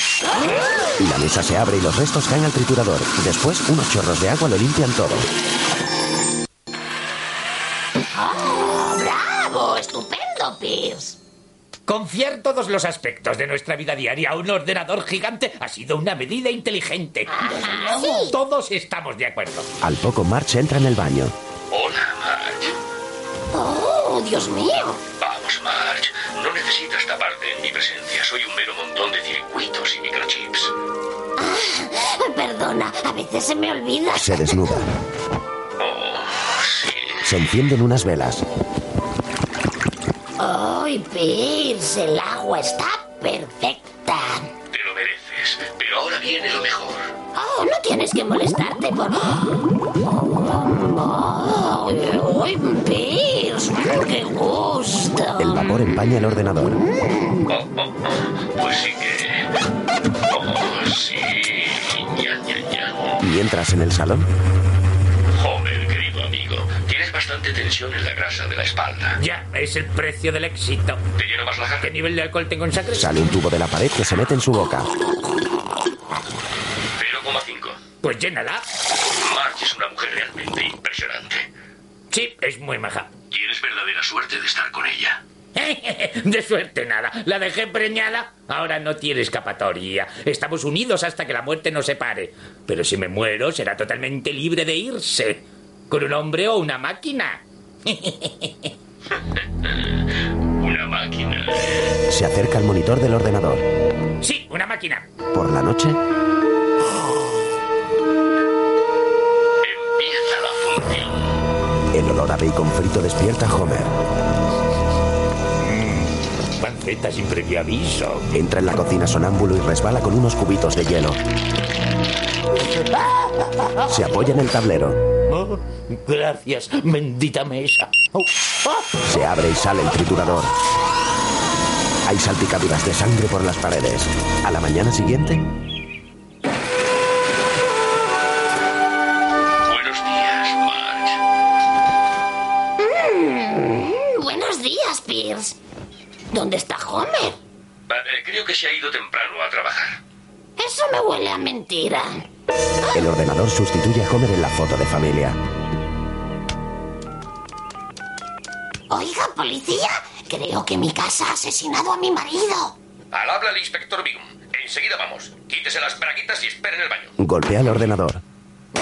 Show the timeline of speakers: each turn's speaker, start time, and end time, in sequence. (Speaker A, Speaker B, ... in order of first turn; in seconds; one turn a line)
Speaker A: 1.0-5.3
Speaker B: 8.1-11.2
Speaker C: 11.9-19.7
Speaker B: 17.3-18.3
Speaker A: 19.8-21.3
Speaker D: 21.7-22.6
Speaker B: 23.5-25.0
Speaker D: 25.2-30.7
Speaker B: 31.4-34.8
Speaker A: 34.1-34.8
Speaker D: 35.8-37.4
Speaker A: 37.2-38.4
Speaker B: 40.4-44.5
Speaker D: 44.7-47.1
Speaker B: 47.3-56.1
Speaker A: 55.4-56.8
Speaker D: 57.5-59.5
Speaker D: 60.3-63.2
Speaker A: 63.2-64.3
Speaker D: 65.3-69.2
Speaker C: 69.2-71.0
Speaker D: 71.2-71.9
Speaker C: 71.8-73.1
Speaker A: 73.0-74.9
Speaker D: 77.0-77.8
Speaker C: 78.0-78.7
Speaker D: 79.2-81.5
Speaker C: 82.1-83.1
Speaker D: 83.3-85.2
Speaker C: 85.5-98.7
Speaker D: 99.2-101.9
Speaker A: 102.1-103.6
Speaker C: 104.2-105.1
Speaker A: 105.3-106.0
Speaker D: 109.6-111.2
Speaker A: 111.9-113.9
Speaker C: 115.6-118.3
Speaker A: 118.3-121.2
Speaker C: 122.7-123.8
Speaker A: 123.9-125.0
Speaker C: 125.3-128.8
Speaker A: 129.0-130.5
Speaker A: 132.1-135.4
Speaker D: 139.7-141.2
Speaker B: 142.8-145.6
Speaker B: 146.3-147.4
Speaker D: 147.9-150.0
Speaker B: 150.6-152.2
Speaker A: 152.9-155.4
Speaker B: 158.9-162.7
Speaker D: 163.1-167.1
Speaker A: 167.2-168.2